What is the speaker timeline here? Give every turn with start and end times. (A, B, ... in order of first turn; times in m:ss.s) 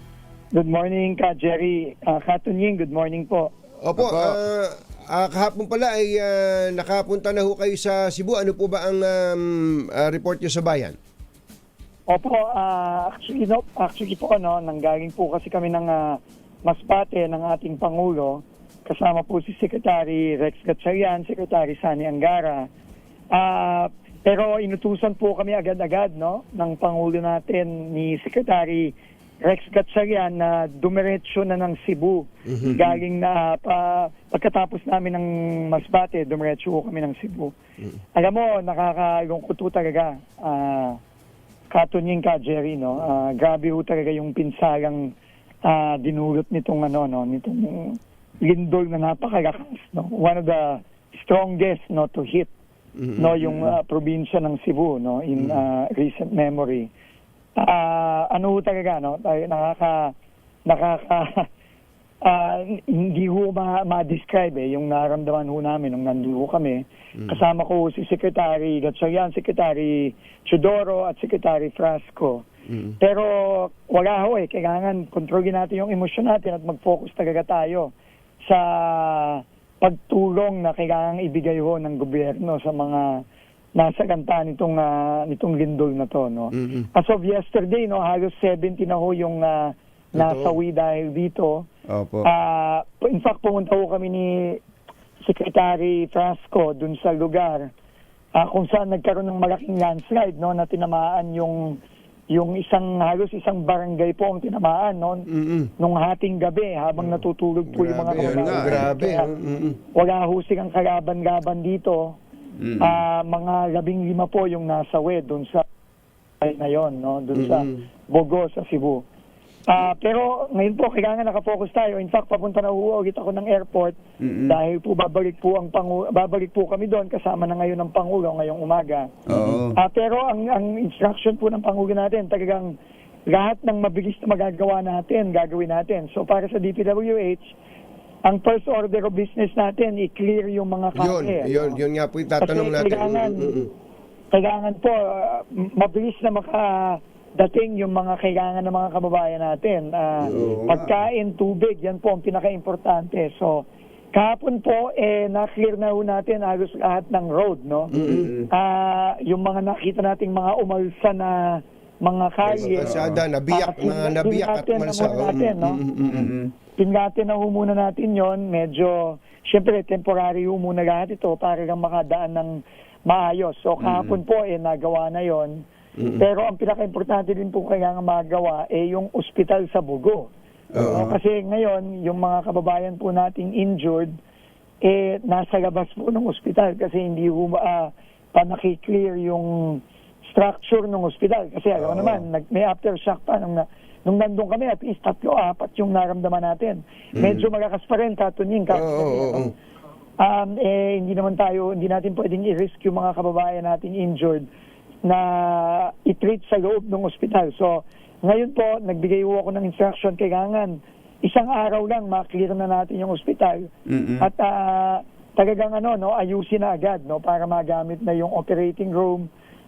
0:00.5-0:03.5 A
0:03.8-0:11.0 B
0:04.0-0:04.4 C
0:12.1-0:22.7 A
0:23.3-0:37.5 A
0:32.5-0:32.9 B
0:38.1-0:41.0 A
0:41.7-0:45.1 A
0:45.6-0:52.5 A
0:53.0-0:53.7 B
0:53.2-0:56.9 A
0:57.6-1:00.1 A
1:00.7-1:01.5 A
1:02.2-1:12.4 A
1:13.0-1:17.9 A
1:18.4-1:23.0 A
1:23.8-1:31.6 A
1:26.6-1:26.9 B
1:30.2-1:30.6 B
1:31.9-1:32.2 C
1:32.2-1:34.6 A
1:35.2-1:37.7 A
1:38.4-1:41.8 A
1:42.3-1:45.3 A
1:45.3-1:45.7 B
1:45.8-1:49.3 A
1:47.0-1:49.8 B
1:48.1-1:48.9 C
1:49.9-1:52.2 A
1:52.6-1:53.0 C
1:52.8-1:55.6 A
1:56.4-1:59.0 A
1:57.3-1:57.8 B
1:59.7-2:09.1 A
2:04.2-2:04.6 C
2:09.3-2:09.8 C
2:09.8-2:12.7 A
2:13.3-2:17.6 A
2:18.3-2:21.8 A
2:21.0-2:23.7 B
2:22.4-2:23.6 A
2:24.3-2:33.6 A
2:30.2-2:31.0 C
2:30.3-2:30.6 B
2:34.1-2:37.9 A
2:37.9-2:38.3 B
2:37.9-2:38.5 C
2:38.5-2:45.8 A
2:42.4-2:46.3 B
2:42.5-2:43.2 C
2:46.1-2:46.5 C
2:46.8-2:55.6 A
2:53.8-2:54.2 C
2:56.0-2:56.2 B
2:56.2-3:00.3 A
3:00.7-3:01.2 C
3:00.8-3:01.1 B
3:00.9-3:04.1 A
3:04.8-3:19.5 A
3:11.8-3:12.2 B
3:18.7-3:19.5 B
3:20.2-3:24.5 A
3:25.0-3:39.3 A
3:33.9-3:34.3 C